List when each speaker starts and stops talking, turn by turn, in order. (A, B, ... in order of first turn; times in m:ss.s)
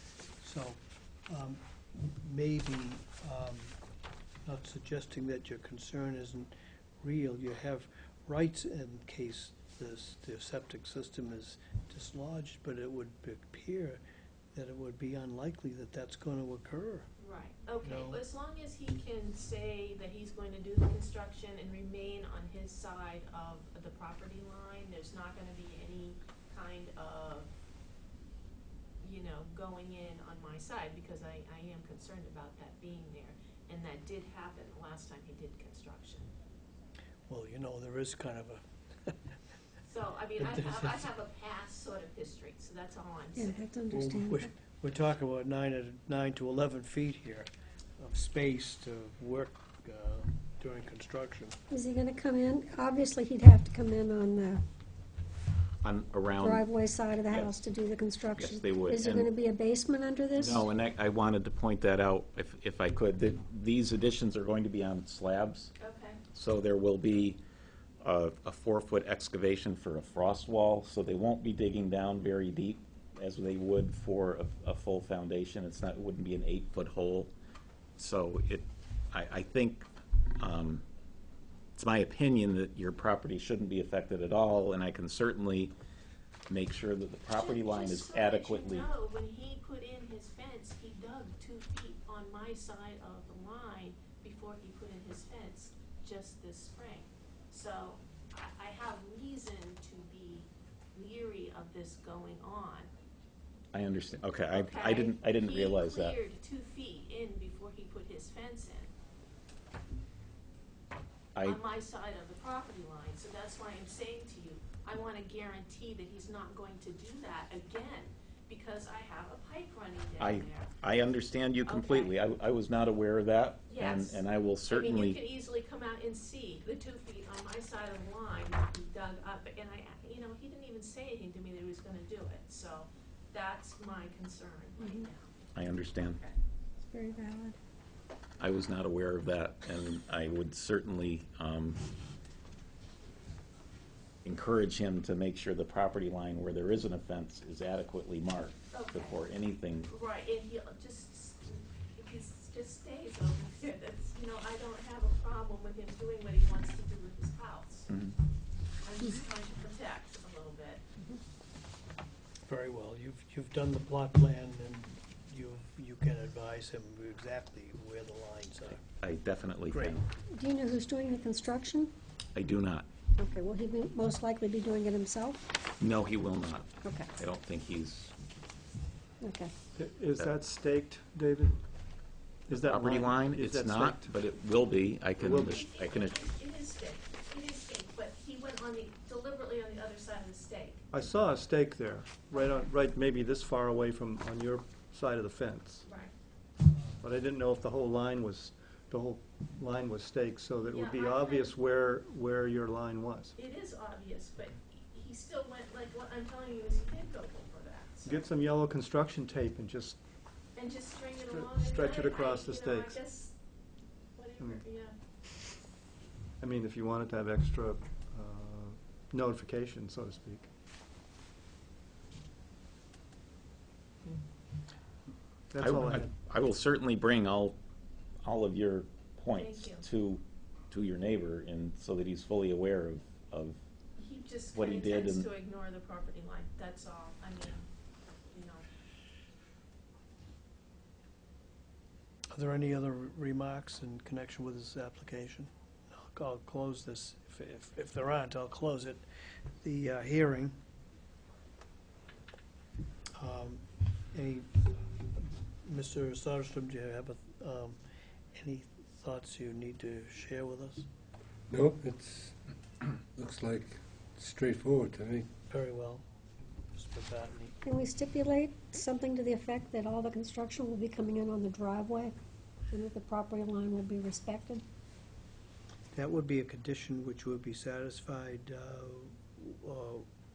0:00.4-0:01.6 A
0:02.2-0:03.8 A
0:04.5-0:14.0 A
0:14.5-0:17.1 A
0:17.2-0:27.5 B
0:17.8-0:18.2 A
0:29.0-0:36.3 B
0:37.3-0:39.1 A
0:39.9-0:43.6 B
0:40.4-0:41.1 A
0:43.4-0:44.5 C
0:43.9-0:51.6 A
0:51.7-0:54.6 C
0:55.8-0:56.7 D
0:56.4-1:00.7 C
0:57.3-0:57.6 D
0:58.4-0:59.3 D
1:00.4-1:05.7 D
1:05.8-1:06.2 B
1:06.3-1:07.4 D
1:08.0-1:17.3 D
1:18.0-1:19.9 D
1:20.4-1:20.8 D
1:21.8-1:25.7 D
1:26.5-1:28.9 D
1:27.3-1:42.9 B
1:43.7-1:46.2 D
1:44.5-1:48.9 B
1:51.4-1:51.6 D
1:51.4-2:00.7 B
2:00.2-2:05.2 D
2:01.6-2:02.2 B
2:03.7-2:15.3 B
2:14.8-2:15.1 C
2:15.6-2:16.2 D
2:16.1-2:16.4 B
2:16.9-2:17.6 C
2:18.4-2:21.8 D
2:24.2-2:29.9 D
2:28.7-2:29.2 B
2:29.9-2:37.9 B
2:37.9-2:38.2 D
2:38.8-2:40.8 B
2:42.5-2:48.8 A
2:49.0-2:50.0 D
2:49.7-2:50.0 A
2:50.4-2:51.9 C
2:52.4-2:52.9 D
2:53.2-2:55.4 C
2:55.8-2:58.1 D
2:56.8-2:57.2 C
2:59.2-2:59.5 C
2:59.8-3:01.6 E
3:02.5-3:04.1 E
3:02.5-3:06.2 D
3:05.2-3:05.6 E
3:05.4-3:10.8 B
3:10.9-3:15.8 E
3:12.3-3:12.7 B
3:15.8-3:16.1 B
3:17.0-3:23.4 E
3:20.7-3:21.6 B
3:23.4-3:28.3 B
3:28.0-3:30.0 E
3:30.6-3:33.4 B
3:31.3-3:33.0 E
3:34.2-3:35.0 B
3:34.4-3:34.6 E
3:36.4-3:40.5 E
3:45.5-3:46.1 E
3:45.6-3:47.6 D
3:48.2-3:53.6 D
3:49.4-3:49.9 B
3:54.0-3:57.7 B
3:54.5-3:55.3 D
3:58.3-3:58.6 B
4:02.3-4:09.0 A
4:09.6-4:10.6 A
4:13.2-4:14.6 A
4:15.2-4:17.8 A
4:18.4-4:20.9 A
4:21.5-4:25.3 F
4:25.5-4:26.0 A
4:26.7-4:27.6 A
4:27.6-4:32.2 C
4:32.7-4:34.6 C
4:35.9-4:40.1 A